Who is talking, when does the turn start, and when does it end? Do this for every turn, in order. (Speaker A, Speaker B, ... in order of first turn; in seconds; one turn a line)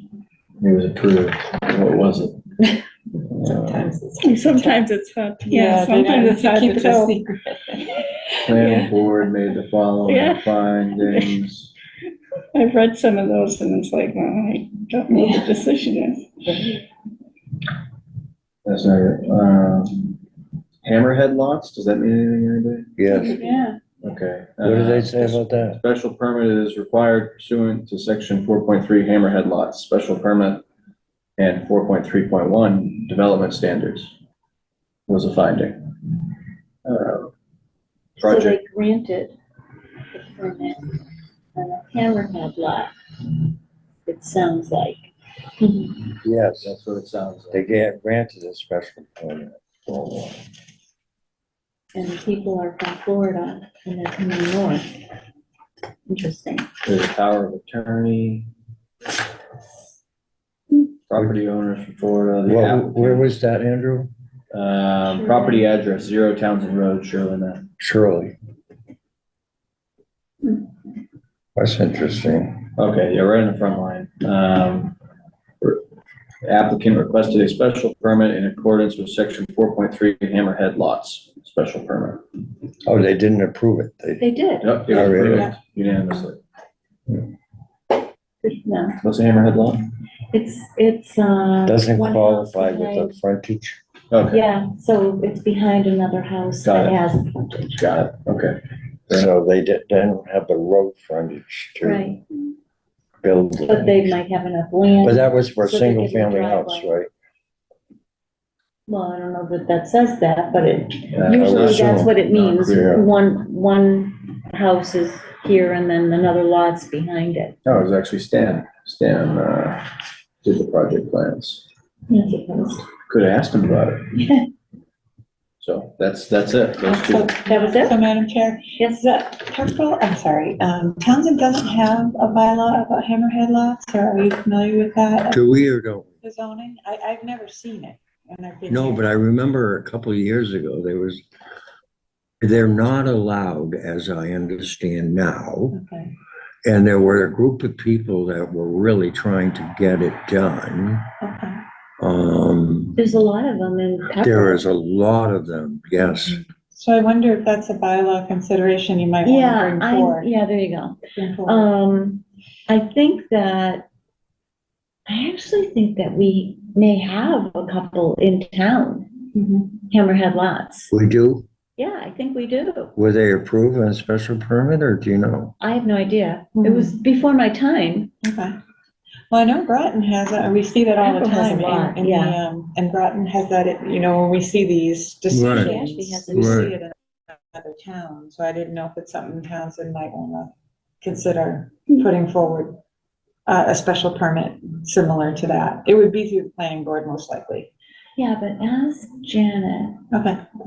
Speaker A: 0.6-2.4
Speaker A: 3.3-3.9
Speaker B: 3.4-4.8
Speaker C: 4.2-7.2
Speaker B: 5.4-8.0
Speaker C: 8.0-9.0
Speaker A: 8.4-11.7
Speaker C: 10.1-11.4
Speaker C: 12.5-16.4
Speaker A: 18.6-20.1
Speaker A: 20.8-22.9
Speaker D: 23.0-23.4
Speaker E: 23.1-23.7
Speaker A: 24.0-30.6
Speaker D: 24.6-25.8
Speaker A: 31.4-34.1
Speaker A: 35.1-35.9
Speaker A: 36.8-37.3
Speaker A: 38.2-38.6
Speaker E: 38.2-39.4
Speaker E: 40.1-41.0
Speaker E: 41.5-42.9
Speaker E: 44.0-46.0
Speaker D: 46.2-46.8
Speaker A: 46.6-47.6
Speaker D: 47.5-50.3
Speaker E: 51.9-54.9
Speaker E: 56.1-56.7
Speaker A: 56.8-58.5
Speaker A: 61.1-63.3
Speaker D: 62.5-64.1
Speaker A: 64.5-67.7
Speaker E: 65.1-65.7
Speaker D: 67.8-68.3
Speaker D: 71.5-72.6
Speaker A: 72.8-74.9
Speaker A: 76.4-82.2
Speaker D: 82.8-84.2
Speaker E: 84.2-84.9
Speaker A: 84.6-86.4
Speaker D: 84.9-85.5
Speaker B: 85.2-85.6
Speaker E: 88.4-89.0
Speaker A: 89.0-89.9
Speaker E: 90.3-93.2
Speaker D: 91.7-93.8
Speaker A: 94.1-94.4
Speaker E: 94.3-97.8
Speaker A: 96.6-97.0
Speaker A: 97.8-99.3
Speaker D: 99.1-102.1
Speaker E: 101.8-102.2
Speaker D: 103.2-104.1
Speaker E: 103.6-106.9
Speaker D: 105.0-107.1
Speaker E: 108.9-117.5
Speaker A: 111.1-113.1
Speaker D: 111.3-112.1
Speaker A: 117.6-119.8
Speaker A: 120.4-121.6
Speaker E: 122.1-122.8
Speaker A: 123.1-124.1
Speaker E: 124.1-124.5
Speaker A: 125.6-127.3
Speaker B: 126.8-135.4
Speaker E: 127.4-128.0
Speaker E: 128.8-129.1
Speaker D: 135.3-136.1
Speaker B: 136.2-139.0
Speaker D: 138.7-141.2
Speaker D: 142.4-145.8
Speaker B: 145.7-146.1
Speaker D: 146.6-151.1
Speaker B: 151.2-151.6
Speaker D: 152.0-153.0
Speaker E: 153.0-154.6
Speaker D: 154.2-156.4
Speaker B: 156.7-160.2
Speaker E: 159.2-163.8
Speaker B: 161.2-161.7
Speaker E: 165.1-169.1
Speaker B: 169.3-169.7
Speaker E: 169.9-170.9
Speaker D: 170.9-171.4
Speaker E: 171.8-172.9
Speaker D: 172.9-175.5
Speaker E: 175.6-178.1
Speaker B: 176.6-176.9
Speaker B: 178.2-178.5
Speaker B: 179.3-192.8
Speaker E: 181.0-182.4
Speaker D: 185.3-185.7
Speaker E: 185.4-186.7
Speaker D: 186.3-186.7
Speaker B: 193.5-197.7
Speaker E: 198.2-200.0
Speaker B: 200.1-200.4